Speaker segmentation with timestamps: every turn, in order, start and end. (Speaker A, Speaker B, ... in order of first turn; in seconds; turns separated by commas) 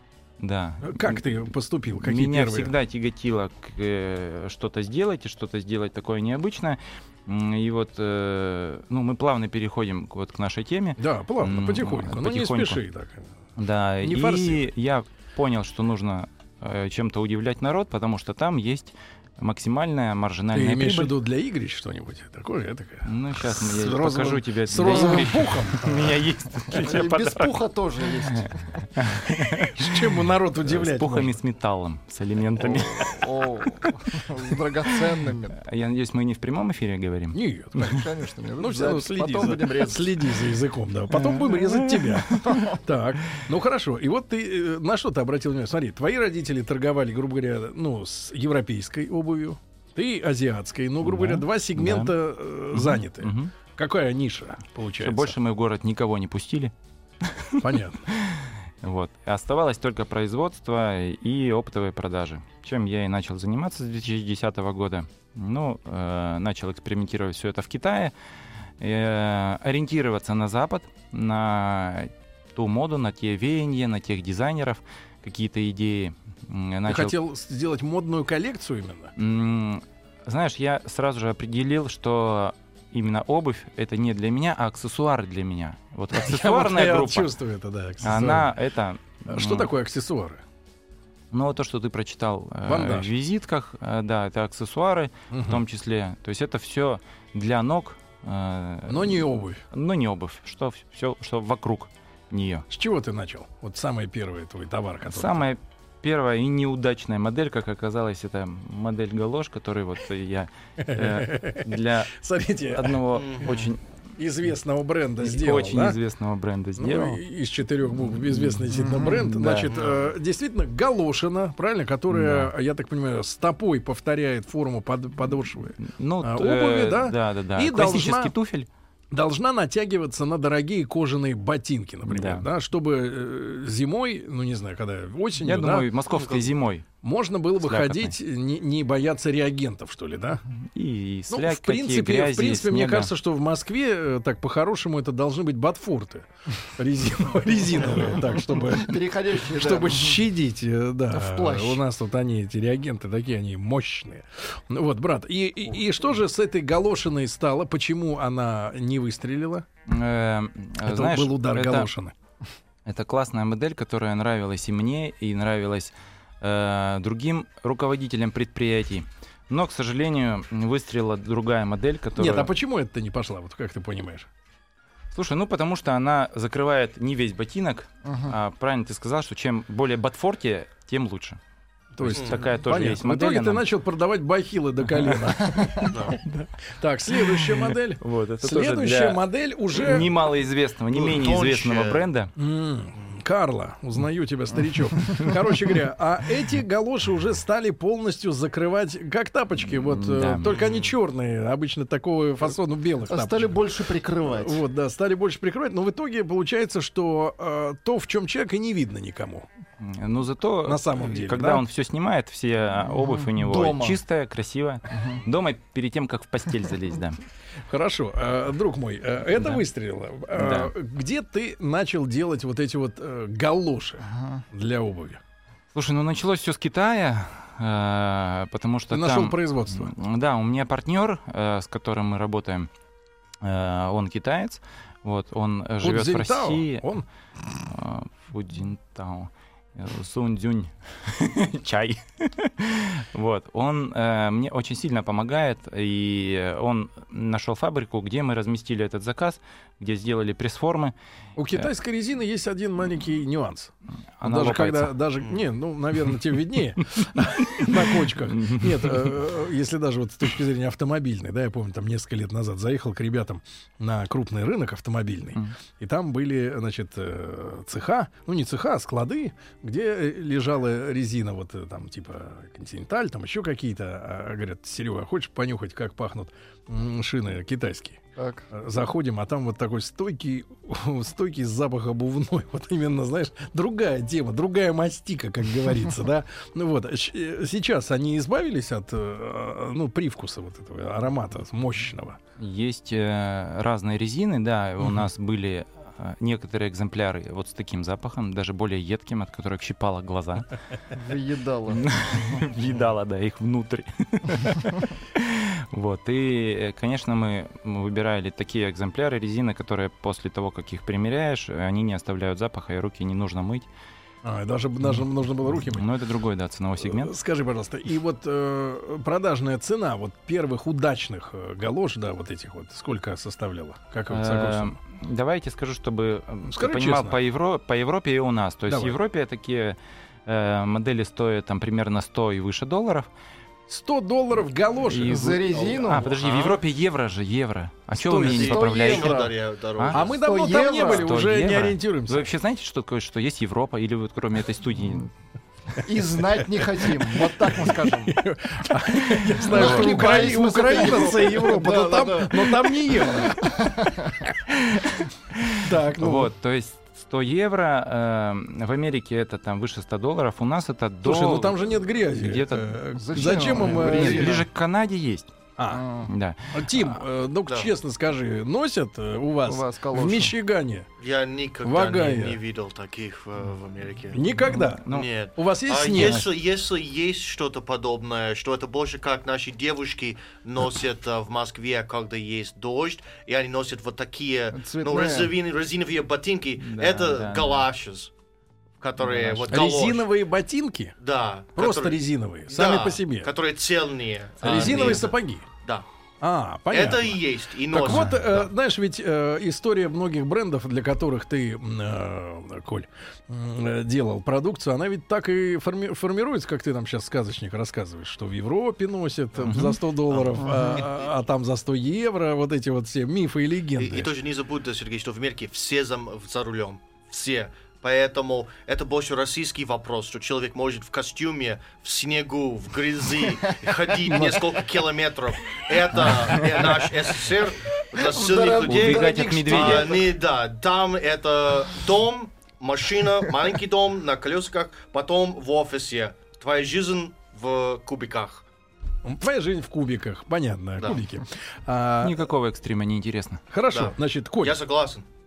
Speaker A: 0.4-1.3, Speaker B: 0.8-2.7, Speaker A: 2.0-12.8, Speaker B: 11.0-13.3, Speaker A: 13.6-21.1, Speaker B: 14.0-14.7, Speaker B: 20.5-26.2, Speaker A: 23.0-27.6, Speaker C: 26.7-28.8, Speaker A: 28.9-30.1, Speaker B: 29.6-31.4, Speaker A: 30.6-33.2, Speaker C: 32.6-35.6, Speaker A: 35.5-37.4, Speaker B: 37.3-55.4, Speaker C: 37.8-40.1, Speaker A: 41.1-42.6, Speaker A: 51.0-52.1, Speaker A: 52.7-53.5, Speaker A: 55.0-68.1, Speaker B: 57.6-58.0, Speaker A: 68.8-77.2, Speaker B: 76.9-79.1, Speaker A: 79.2-87.3, Speaker B: 86.1-88.5, Speaker A: 88.0-89.7, Speaker B: 89.3-90.4, Speaker A: 91.3-102.7, Speaker B: 92.7-93.1, Speaker B: 95.3-95.6, Speaker B: 98.9-99.6, Speaker B: 102.7-105.5, Speaker A: 105.1-112.1, Speaker B: 110.8-113.0, Speaker A: 112.7-113.8, Speaker D: 113.1-113.7, Speaker B: 114.2-116.0, Speaker A: 115.2-117.2, Speaker B: 116.8-128.3, Speaker C: 118.9-119.3, Speaker D: 119.5-120.1, Speaker A: 122.1-122.5, Speaker A: 125.8-128.7, Speaker B: 129.1-135.9, Speaker A: 132.0-132.5, Speaker A: 135.4-136.8, Speaker D: 136.1-136.4, Speaker B: 137.0-140.4, Speaker A: 137.6-138.2, Speaker A: 140.7-143.1, Speaker B: 141.3-159.7, Speaker C: 148.7-150.2, Speaker C: 151.1-151.8, Speaker A: 159.9-161.9, Speaker B: 160.8-162.1, Speaker A: 162.8-172.5, Speaker B: 172.2-174.3, Speaker A: 175.1-181.4, Speaker C: 178.0-178.3, Speaker B: 181.9-190.1, Speaker A: 182.0-183.6, Speaker D: 182.1-182.4, Speaker A: 184.9-186.5, Speaker D: 185.9-186.2, Speaker A: 187.1-192.3, Speaker D: 190.9-192.1, Speaker B: 192.3-209.5, Speaker A: 199.6-200.6, Speaker D: 200.4-200.9, Speaker C: 203.1-204.6, Speaker A: 209.8-217.2, Speaker B: 210.6-211.6, Speaker C: 212.9-214.0, Speaker C: 214.9-215.2, Speaker B: 217.7-225.2, Speaker A: 219.3-219.6, Speaker A: 220.3-220.7, Speaker C: 224.1-224.4, Speaker A: 225.7-232.7, Speaker B: 228.9-229.9, Speaker A: 233.4-236.8, Speaker B: 235.8-237.0, Speaker A: 237.6-250.9, Speaker B: 251.3-292.2, Speaker A: 254.2-255.0, Speaker A: 256.9-259.1, Speaker C: 278.1-278.5, Speaker A: 292.4-300.5, Speaker C: 300.9-302.4, Speaker A: 301.7-313.7, Speaker B: 314.2-315.9, Speaker A: 315.5-317.1, Speaker B: 316.8-324.8, Speaker A: 324.1-333.1, Speaker B: 326.4-327.2, Speaker B: 328.7-329.0, Speaker B: 333.7-335.5, Speaker A: 334.9-339.2, Speaker C: 335.0-336.1, Speaker D: 335.5-336.6, Speaker B: 337.9-339.3, Speaker D: 338.2-340.2, Speaker C: 338.5-339.1, Speaker A: 339.8-340.0, Speaker B: 339.9-342.3, Speaker C: 340.2-341.2, Speaker A: 340.7-345.1, Speaker C: 345.8-348.2, Speaker B: 346.6-353.6, Speaker A: 349.4-350.3, Speaker C: 349.4-354.3, Speaker A: 354.5-361.6, Speaker B: 355.6-356.3, Speaker B: 361.0-364.4, Speaker A: 362.1-365.3, Speaker C: 362.9-364.4, Speaker B: 365.6-365.8, Speaker C: 365.7-366.1, Speaker A: 366.1-366.8, Speaker B: 366.5-370.9, Speaker D: 367.4-367.7, Speaker C: 369.4-370.3, Speaker D: 371.0-374.2, Speaker B: 371.6-372.4, Speaker B: 374.1-374.8, Speaker A: 374.5-375.1, Speaker D: 374.9-388.1, Speaker B: 375.4-376.3, Speaker A: 375.9-376.2, Speaker C: 384.5-385.3, Speaker A: 386.6-387.7, Speaker D: 388.8-390.1, Speaker A: 389.0-389.5, Speaker B: 389.5-390.9, Speaker D: 391.0-395.9, Speaker B: 391.6-393.3, Speaker B: 394.4-395.4, Speaker B: 396.2-414.1, Speaker D: 396.7-398.5, Speaker A: 409.4-409.8, Speaker D: 410.1-411.0, Speaker C: 410.4-410.8, Speaker D: 413.8-438.4, Speaker C: 424.1-424.4, Speaker C: 426.2-426.9, Speaker C: 427.9-430.0, Speaker A: 428.6-429.9, Speaker B: 439.0-442.3, Speaker A: 442.0-443.4, Speaker B: 443.5-444.6, Speaker D: 443.7-445.0